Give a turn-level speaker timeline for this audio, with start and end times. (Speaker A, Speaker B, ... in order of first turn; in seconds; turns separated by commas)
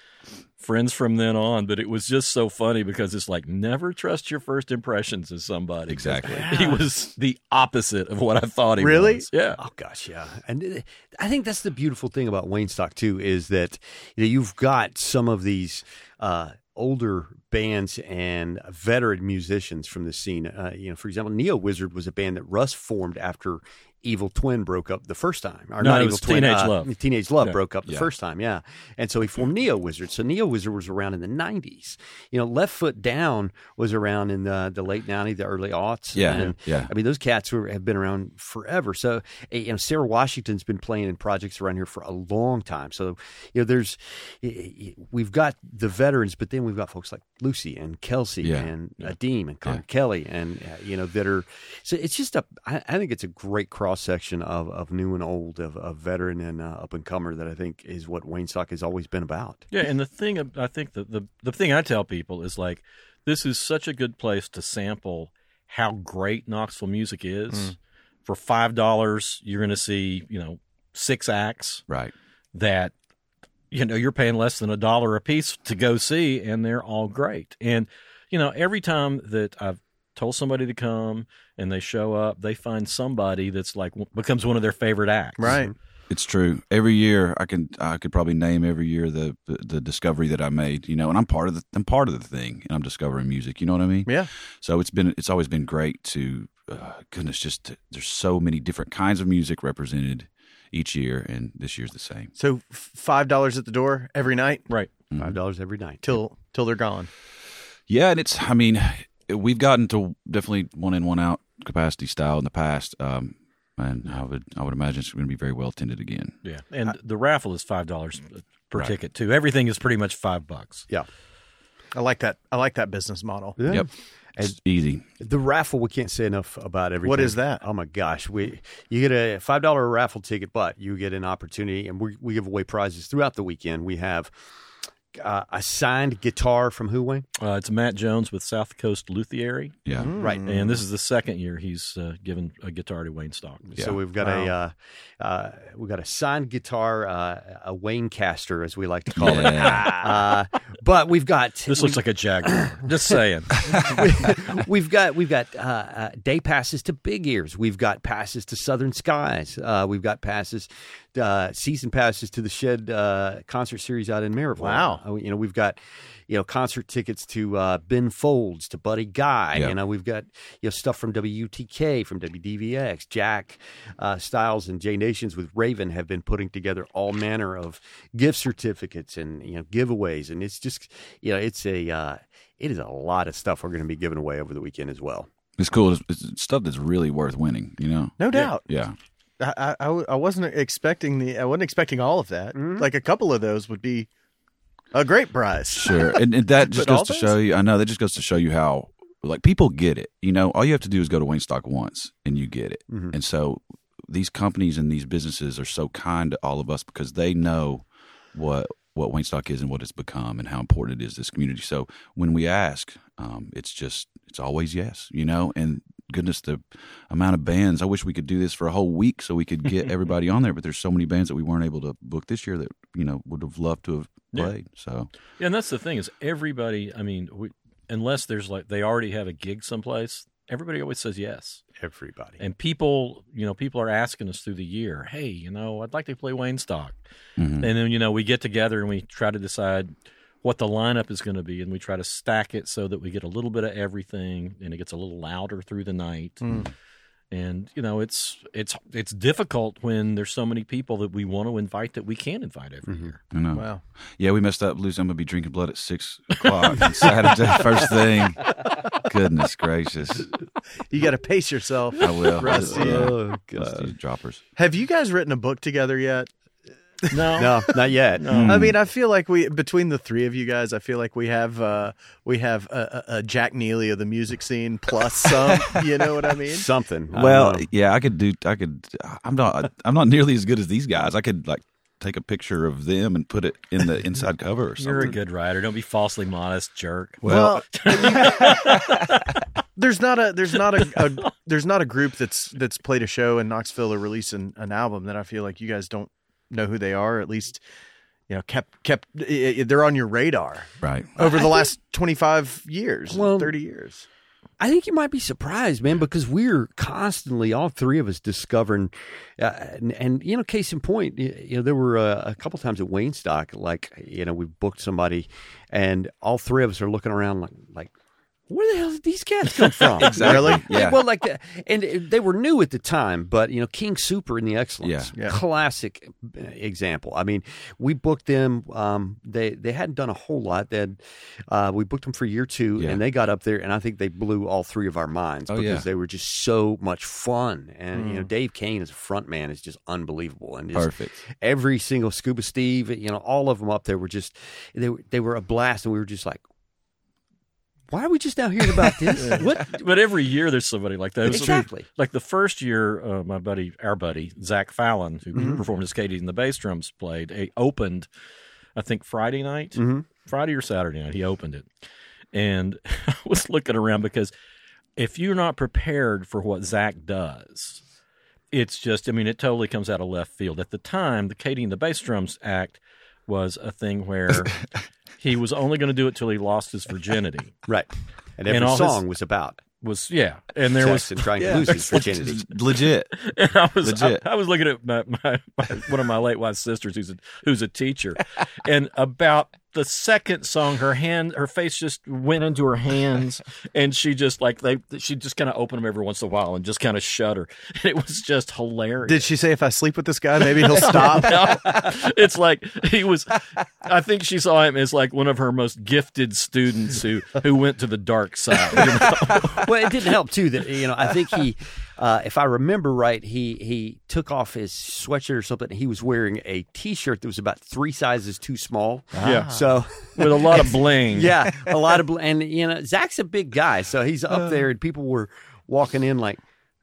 Speaker A: 0.6-9.6, Speaker B: 5.9-6.6, Speaker C: 6.2-6.8, Speaker C: 8.8-9.3, Speaker D: 9.6-59.7, Speaker A: 25.8-27.6, Speaker B: 36.1-36.9, Speaker B: 48.4-48.7, Speaker A: 59.7-71.8, Speaker B: 71.9-72.1, Speaker A: 72.5-72.9, Speaker A: 73.7-85.6, Speaker C: 85.4-85.7, Speaker D: 85.5-85.7, Speaker B: 86.1-102.3, Speaker C: 102.3-104.7, Speaker B: 105.1-105.4, Speaker D: 105.2-106.0, Speaker C: 106.0-107.1, Speaker B: 107.9-116.4, Speaker A: 116.4-120.9, Speaker C: 121.9-123.6, Speaker D: 123.6-124.5, Speaker B: 123.7-125.0, Speaker D: 125.2-134.5, Speaker C: 127.0-127.6, Speaker D: 135.1-137.3, Speaker A: 137.4-139.8, Speaker B: 139.8-140.2, Speaker C: 139.9-140.7, Speaker D: 140.2-140.5, Speaker A: 140.4-143.6, Speaker D: 143.7-152.9, Speaker C: 144.2-144.5, Speaker B: 149.1-150.0, Speaker C: 149.6-150.1, Speaker A: 151.7-153.6, Speaker D: 153.6-185.3, Speaker C: 164.6-165.0, Speaker B: 185.6-188.9, Speaker C: 188.2-188.6, Speaker C: 189.4-194.1, Speaker D: 192.5-192.9, Speaker C: 194.9-197.3, Speaker B: 195.7-225.1, Speaker D: 202.9-203.2, Speaker A: 225.3-231.6, Speaker D: 231.8-232.4, Speaker A: 232.4-237.0, Speaker B: 237.4-237.7, Speaker A: 237.6-246.4, Speaker A: 247.3-253.2, Speaker D: 252.8-253.1, Speaker B: 253.3-260.3, Speaker C: 253.5-253.8, Speaker C: 260.9-263.1, Speaker B: 262.0-264.4, Speaker D: 262.4-263.9, Speaker C: 264.6-266.3, Speaker C: 267.0-267.3, Speaker A: 267.1-268.6, Speaker D: 267.3-268.4, Speaker B: 268.3-268.8, Speaker C: 268.4-276.7, Speaker D: 276.5-277.7, Speaker B: 277.1-285.1, Speaker A: 284.8-289.2, Speaker B: 287.2-288.6, Speaker C: 287.2-288.5, Speaker C: 289.8-297.6, Speaker C: 298.3-304.1, Speaker B: 300.8-301.1, Speaker D: 303.1-303.5, Speaker D: 304.6-317.9, Speaker D: 318.5-346.4, Speaker B: 320.0-321.0, Speaker C: 320.0-320.6, Speaker B: 324.8-325.1, Speaker B: 335.5-335.8, Speaker C: 337.9-338.3, Speaker B: 340.7-341.2, Speaker D: 347.9-349.9, Speaker A: 349.1-358.1, Speaker D: 351.2-351.9, Speaker D: 355.3-355.6, Speaker A: 358.7-361.7, Speaker D: 359.7-360.1, Speaker A: 362.3-364.3, Speaker A: 365.0-367.8, Speaker A: 368.5-374.6, Speaker A: 375.2-377.5, Speaker D: 377.6-379.6, Speaker A: 378.5-379.0, Speaker A: 379.8-382.1, Speaker D: 380.7-382.5, Speaker B: 381.4-383.2, Speaker A: 383.1-399.3, Speaker B: 383.8-384.2, Speaker C: 399.1-401.5, Speaker A: 400.6-409.6, Speaker D: 409.4-426.4, Speaker C: 419.1-419.7, Speaker A: 419.2-419.5, Speaker A: 420.1-421.4